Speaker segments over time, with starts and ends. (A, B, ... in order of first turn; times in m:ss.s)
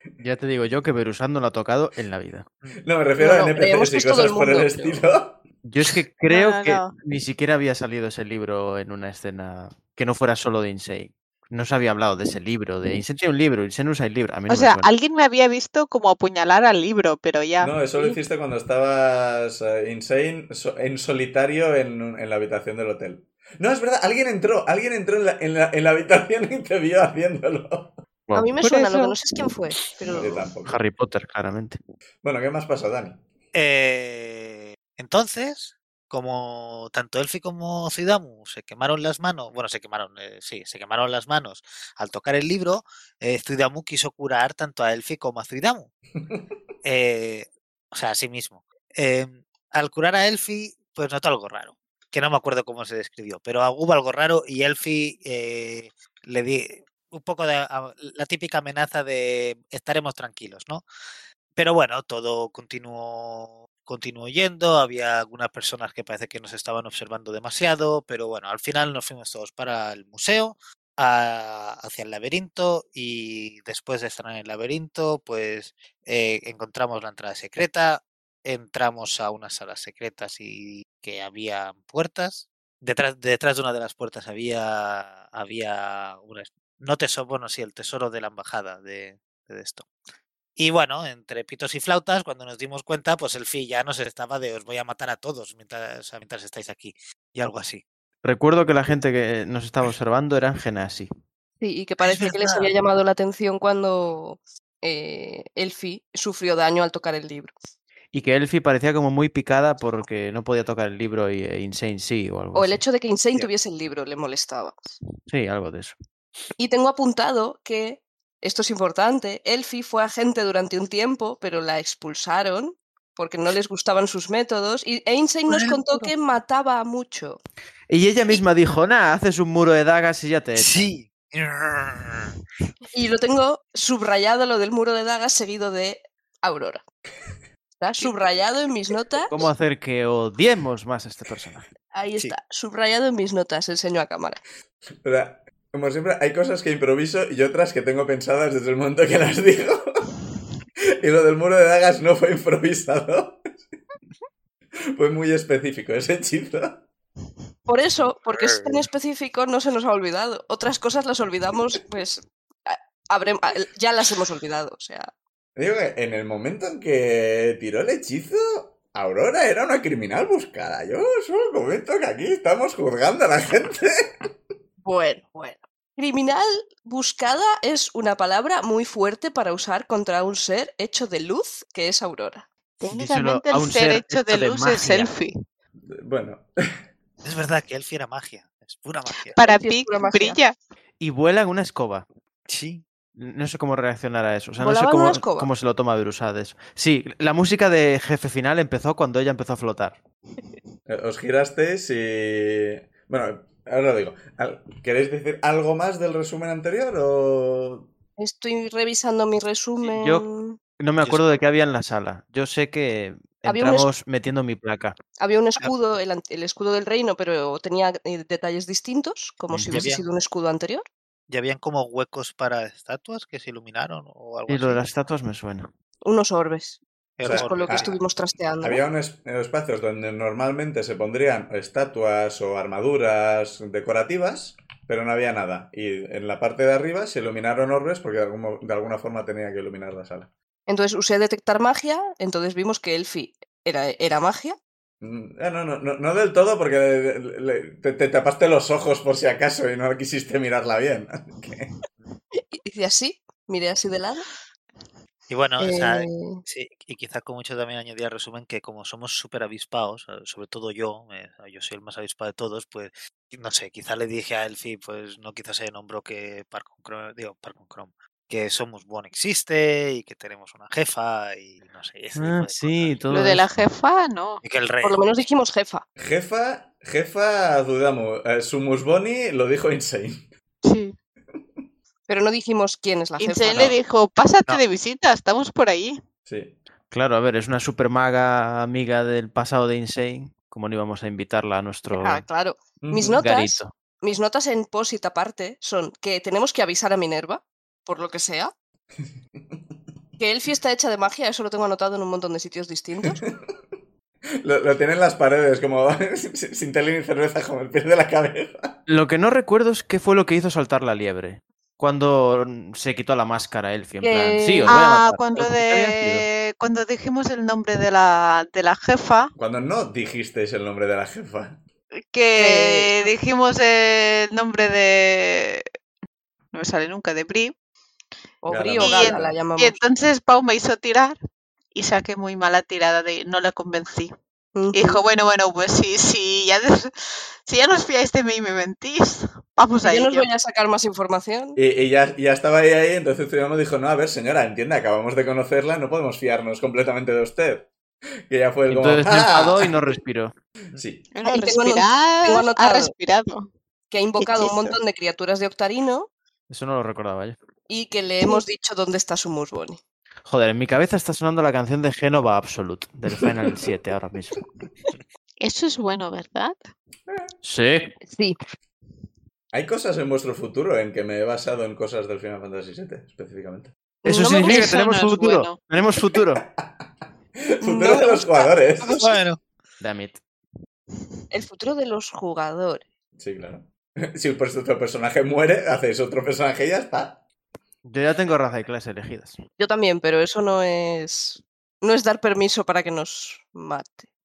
0:00.2-0:02.5 A
0:02.8-0:05.4 B
0:03.2-0:05.0 C
0:05.6-0:14.9 A
0:06.2-0:06.9 D
0:14.5-0:18.2 D
0:17.6-0:28.0 B
0:28.3-0:28.5 A
0:28.3-0:30.4 C
0:28.6-0:29.2 D
0:30.1-0:30.8 B
0:30.6-0:31.8 A
0:32.2-0:33.2 B
0:33.5-0:45.9 E
0:46.8-1:00.8 E
1:01.6-1:29.9 E
1:30.6-1:37.8 E
1:38.2-1:41.1 A
1:41.6-1:47.5 C
1:42.0-1:42.7 E
1:48.1-1:52.8 A
1:52.5-1:54.9 C
1:55.2-1:56.0 A
1:56.6-2:07.4 C
2:05.5-2:06.0 E
2:07.9-2:10.9 A
2:10.6-2:12.3 E
2:12.9-2:16.8 C
2:17.8-2:19.3 C
2:19.3-2:21.7 A
2:21.9-2:24.4 C
2:25.0-2:30.1 B
2:31.0-2:33.5 B
2:35.0-2:36.9 B
2:37.7-2:45.1 C
2:38.3-2:38.8 E
2:45.6-2:54.3 B
2:54.8-3:02.4 C
3:02.8-3:05.3 D
3:02.9-3:05.1 A
3:05.9-3:06.5 B
3:07.2-3:09.4 E
3:09.3-3:10.6 D
3:09.4-3:10.4 C
3:11.0-3:12.0 A
3:12.5-3:12.8 E
3:13.2-3:20.0 A
3:14.6-3:15.5 C
3:20.9-3:27.9 B
3:28.2-3:30.6 C
3:29.8-3:30.3 A
3:30.8-3:34.9 A
3:31.0-3:31.4 E
3:33.5-3:33.9 C
3:35.2-3:40.8 C
3:39.5-3:39.9 A
3:39.7-3:40.0 E
3:41.3-3:44.8 E
3:44.5-3:45.7 A
3:46.0-3:48.8 C
3:47.2-3:48.0 E
3:47.2-3:47.9 B
3:48.6-4:00.3 B
4:00.7-4:04.6 C
4:05.0-4:11.7 B
4:12.5-4:14.3 C
4:15.3-4:33.0 E
4:15.6-4:16.4 C
4:32.2-4:33.4 A
4:33.1-4:34.4 D
4:34.4-4:35.0 E
4:34.8-4:35.8 C
4:36.0-4:40.3 B
4:40.6-4:40.9 D
4:41.3-4:41.6 B
4:42.1-4:43.7 C
4:43.2-4:46.0 D
4:46.3-4:46.6 B
4:46.9-4:52.2 A
4:52.0-4:58.5 C
4:52.8-4:53.2 B
4:53.1-4:53.7 A
5:00.2-5:03.2 C
5:03.0-5:03.5 B
5:04.4-5:08.8 B
5:08.9-5:16.2 A
5:14.0-5:14.7 C
5:14.7-5:19.3 D
5:19.4-5:21.6 B
5:22.1-5:25.6 D
5:22.4-5:23.0 C
5:26.5-5:27.5 D
5:28.4-5:29.7 C
5:28.5-5:29.4 B
5:28.8-5:31.2 D
5:31.7-5:34.1 D
5:34.5-5:35.0 C
5:34.7-5:40.3 D
5:39.8-5:41.6 C
5:41.5-5:47.7 B
5:48.3-5:49.7 B
5:48.7-5:50.3 A
5:50.7-5:51.1 B
5:51.1-5:53.5 D
5:51.2-5:52.9 C
5:53.9-5:56.1 C
5:54.2-5:54.8 D
5:56.5-5:57.4 A
5:57.7-5:59.8 C
6:00.2-6:04.4 A
6:05.4-6:06.7 D
6:07.1-6:07.3 B
6:07.4-6:08.0 A
6:08.0-6:08.4 C
6:09.5-6:13.7 B
6:14.0-6:14.7 C
6:14.0-6:16.4 A
6:14.4-6:15.6 D
6:16.6-6:16.8 B
6:17.6-6:19.1 B
6:17.6-6:19.2 C
6:18.9-6:19.4 E
6:19.8-6:20.2 A
6:21.3-6:22.8 C
6:23.2-6:27.2 B
6:27.8-6:29.4 A
6:29.6-6:34.1 C